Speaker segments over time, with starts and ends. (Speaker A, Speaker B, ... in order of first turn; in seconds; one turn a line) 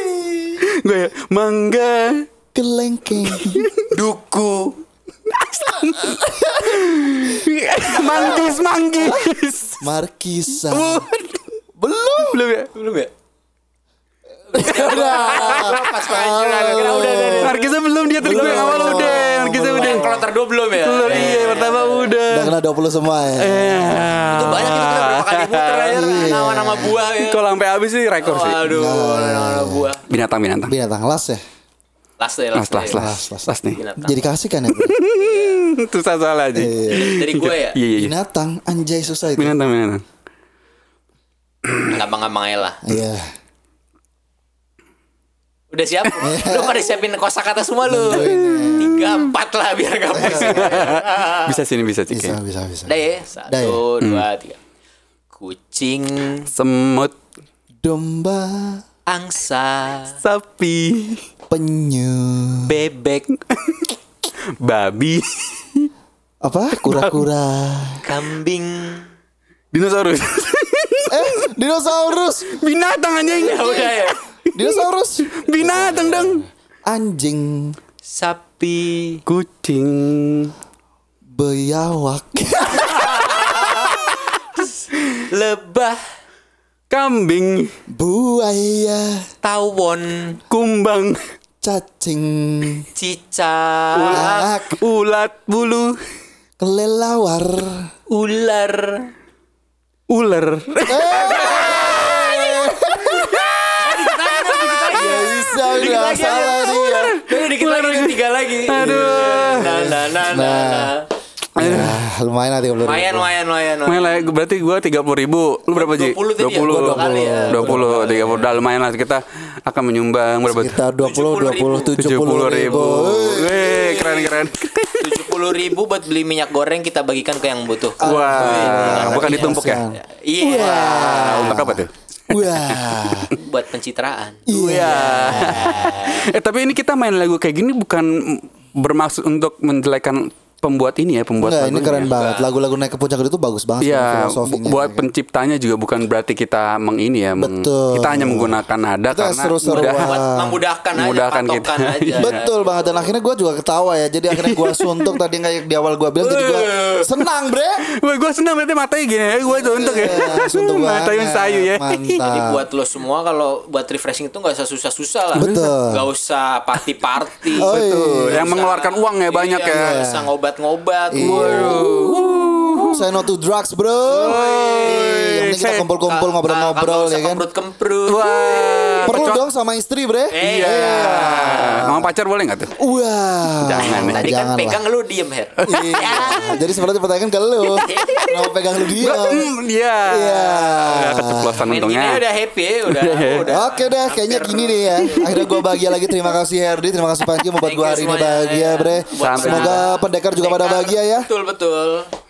Speaker A: 0.6-2.3
Speaker B: 2.5-3.7
Speaker A: 3.2-3.9
Speaker C: 3.9-4.8
Speaker A: 5.3-9.9
Speaker B: 5.9-9.3
Speaker B: 9.8-11.1
Speaker A: 10.7-11.5
Speaker B: 11.8-12.4
Speaker A: 12.2-12.7
Speaker C: 12.7-13.1
Speaker C: 14.5-17.7
Speaker B: 14.5-17.6
Speaker A: 15.3-15.8
Speaker A: 17.4-20.2
Speaker B: 18.2-20.1
Speaker C: 18.2-22.1
Speaker A: 20.8-22.6
Speaker B: 22.3-24.7
Speaker A: 23.3-26.4
Speaker C: 24.3-27.4
Speaker B: 25.9-26.9
Speaker A: 27.2-28.6
Speaker C: 28.2-30.0
Speaker B: 28.6-29.9
Speaker A: 30.1-30.7
Speaker B: 30.6-31.4
Speaker C: 32.2-33.0
Speaker A: 32.5-33.8
Speaker B: 32.9-33.5
Speaker C: 33.7-34.2
Speaker B: 34.0-35.0
Speaker A: 34.7-38.1
Speaker C: 35.1-35.7
Speaker B: 36.5-37.2
Speaker C: 36.9-37.8
Speaker B: 37.9-39.6
Speaker A: 39.4-40.0
Speaker C: 41.9-42.8
Speaker B: 42.8-43.3
Speaker C: 45.7-51.6
Speaker B: 46.2-46.8
Speaker B: 47.8-49.0
Speaker A: 48.2-48.8
Speaker B: 50.1-50.9
Speaker A: 50.2-52.4
Speaker B: 52.1-52.9
Speaker C: 52.9-54.6
Speaker B: 53.5-53.8
Speaker C: 55.3-56.5
Speaker A: 56.5-57.1
Speaker B: 57.8-58.8
Speaker C: 59.1-60.2
Speaker A: 60.2-61.2
Speaker B: 61.5-62.7
Speaker C: 62.6-63.3
Speaker A: 63.5-64.0
Speaker A: 64.6-65.9
Speaker B: 66.4-68.0
Speaker A: 66.7-67.3
Speaker C: 68.0-69.1
Speaker A: 69.7-71.5
Speaker B: 71.1-72.6
Speaker A: 72.5-74.8
Speaker C: 73.3-74.2
Speaker B: 74.5-77.8
Speaker A: 75.4-76.4
Speaker C: 78.0-79.2
Speaker A: 79.3-80.5
Speaker B: 81.3-83.2
Speaker C: 82.8-84.7
Speaker A: 83.9-84.2
Speaker C: 85.3-86.0
Speaker A: 86.9-87.7
Speaker B: 87.9-89.2
Speaker C: 89.4-90.4
Speaker A: 90.5-91.2
Speaker B: 91.6-92.9
Speaker C: 93.0-94.5
Speaker A: 94.0-96.0
Speaker B: 94.1-94.8
Speaker B: 96.6-97.9
Speaker C: 98.1-99.1
Speaker A: 100.1-108.2
Speaker B: 100.9-103.4
Speaker C: 101.2-102.1
Speaker C: 103.8-111.1
Speaker B: 104.9-107.2
Speaker A: 108.7-110.0
Speaker B: 109.6-110.9
Speaker B: 111.6-113.3
Speaker A: 111.6-112.0
Speaker C: 112.8-114.3
Speaker A: 113.9-120.8
Speaker C: 115.7-118.6
Speaker B: 116.6-118.0
Speaker B: 120.5-123.7
Speaker C: 121.0-122.0
Speaker A: 122.0-125.2
Speaker C: 123.5-124.5
Speaker C: 125.0-131.6
Speaker B: 128.0-133.3
Speaker A: 128.0-129.8
Speaker A: 130.6-133.0
Speaker C: 133.3-136.3
Speaker B: 134.5-135.9
Speaker A: 134.5-142.1
Speaker B: 141.4-145.1
Speaker C: 142.0-142.5
Speaker A: 143.8-150.2
Speaker B: 147.4-148.6
Speaker B: 149.1-150.6
Speaker C: 149.7-153.1
Speaker A: 150.9-152.4
Speaker B: 152.2-157.8
Speaker A: 154.3-155.2
Speaker A: 156.2-157.2
Speaker A: 158.0-162.2
Speaker C: 159.5-160.3
Speaker B: 159.7-162.6
Speaker C: 162.2-167.8
Speaker B: 165.3-166.1
Speaker A: 165.4-165.8
Speaker B: 167.6-168.5
Speaker A: 167.6-170.0
Speaker C: 168.3-172.2
Speaker B: 169.7-170.3
Speaker B: 171.1-171.8
Speaker A: 171.2-173.0
Speaker B: 172.9-177.4
Speaker A: 174.1-175.9
Speaker C: 174.2-175.0
Speaker C: 176.1-179.2
Speaker A: 178.1-179.5
Speaker B: 179.1-182.1
Speaker C: 180.3-181.8
Speaker A: 180.4-182.7
Speaker B: 182.8-184.8
Speaker A: 183.6-184.3
Speaker C: 183.8-186.6
Speaker A: 185.6-186.6
Speaker B: 185.7-189.5
Speaker A: 187.8-188.4
Speaker C: 187.8-188.3
Speaker A: 188.9-192.2
Speaker B: 190.1-191.7
Speaker C: 191.6-195.6
Speaker A: 192.9-193.5
Speaker B: 193.5-201.3
Speaker A: 195.1-196.4
Speaker C: 197.6-202.1
Speaker A: 199.2-199.8